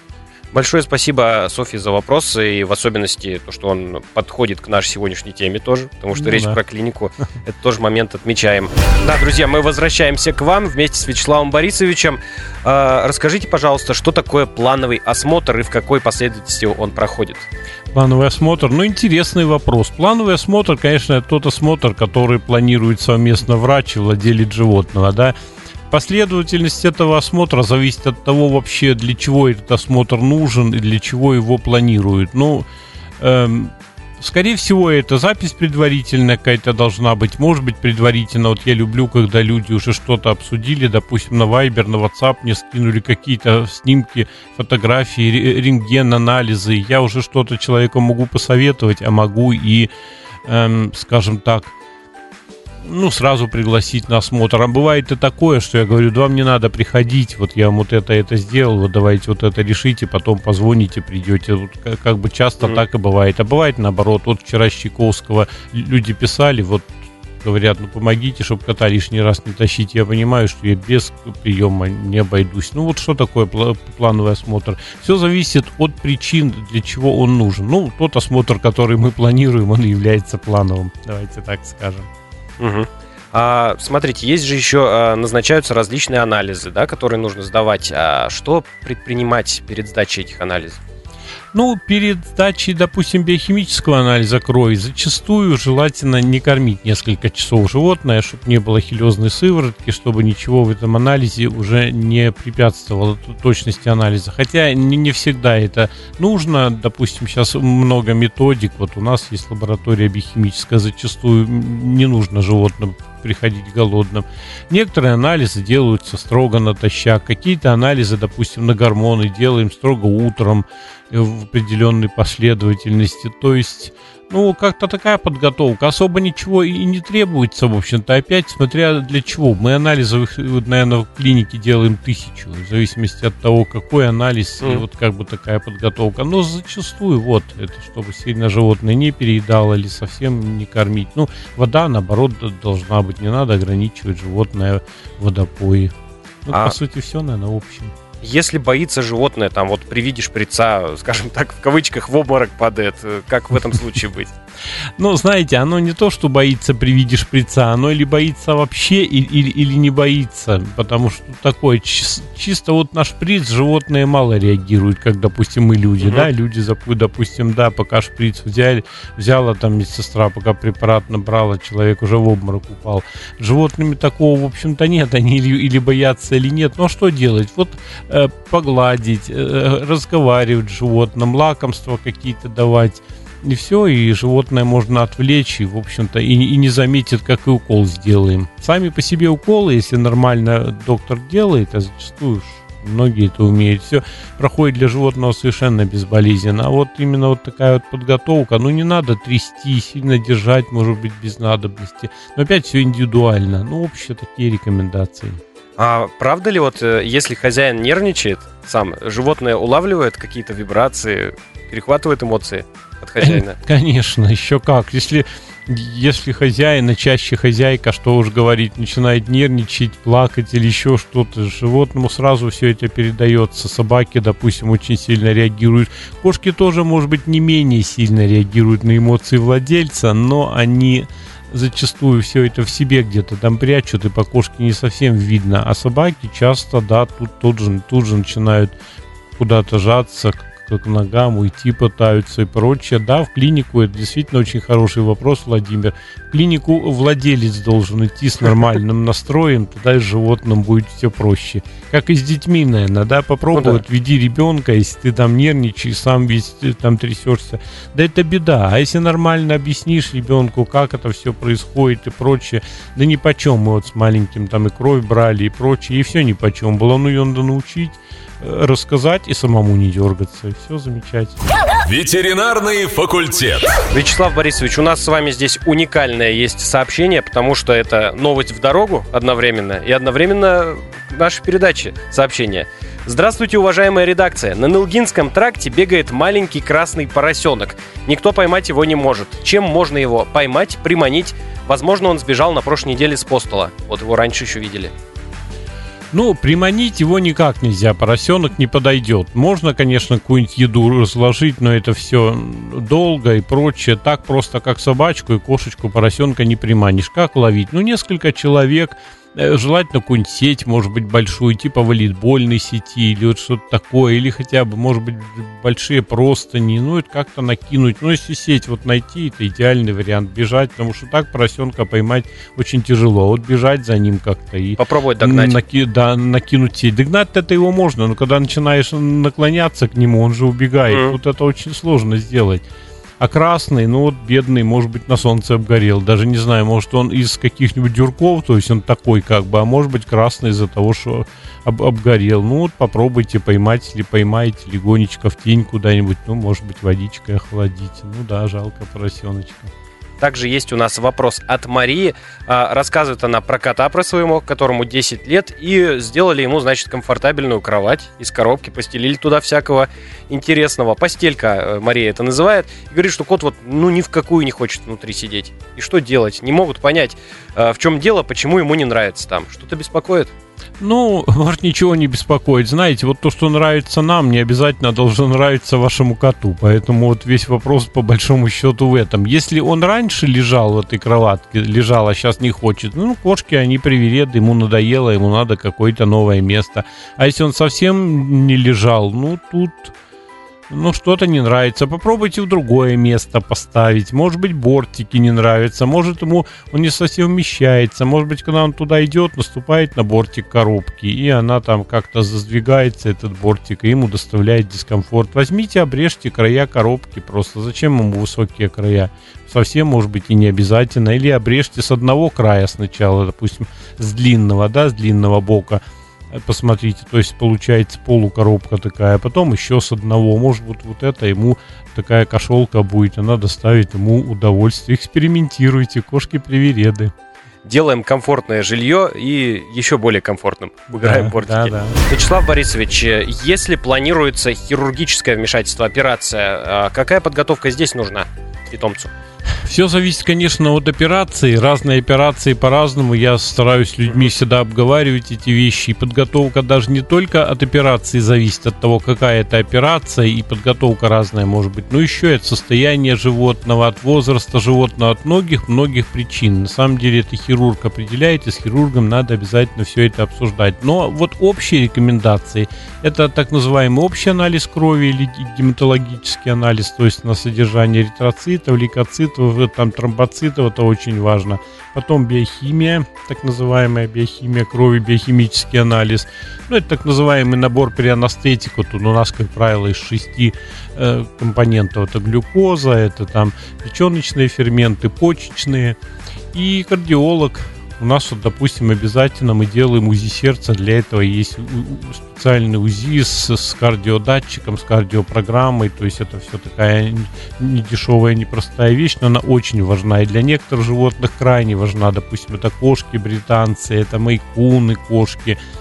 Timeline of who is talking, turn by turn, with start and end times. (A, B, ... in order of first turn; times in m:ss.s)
0:00.5-0:17.5 A
0:06.2-0:06.6 B
0:17.9-0:25.3 B
0:25.9-0:32.7 B
0:33.2-0:49.9 B
0:50.4-0:51.7 B
0:52.8-1:22.1 B
1:22.6-1:30.8 A
1:31.5-2:25.9 B
2:26.4-2:28.0 B
2:26.5-2:26.8 A
2:28.2-2:34.3 A
2:35.0-3:25.4 B
3:25.8-3:33.6 A
3:33.2-3:58.8 B
3:59.4-4:31.4 B
4:13.6-4:13.8 A
4:31.8-4:33.8 C
4:33.9-4:54.9 A
4:56.1-5:32.6 B
5:24.8-5:25.6 A
5:30.9-5:31.2 A
5:33.2-5:49.7 B
5:50.2-6:10.3 A
6:10.8-6:29.9 B
6:30.7-7:07.1 B
7:07.7-7:19.1 A
7:10.9-7:12.0 B
7:19.6-8:06.0 B
8:06.5-8:25.6 B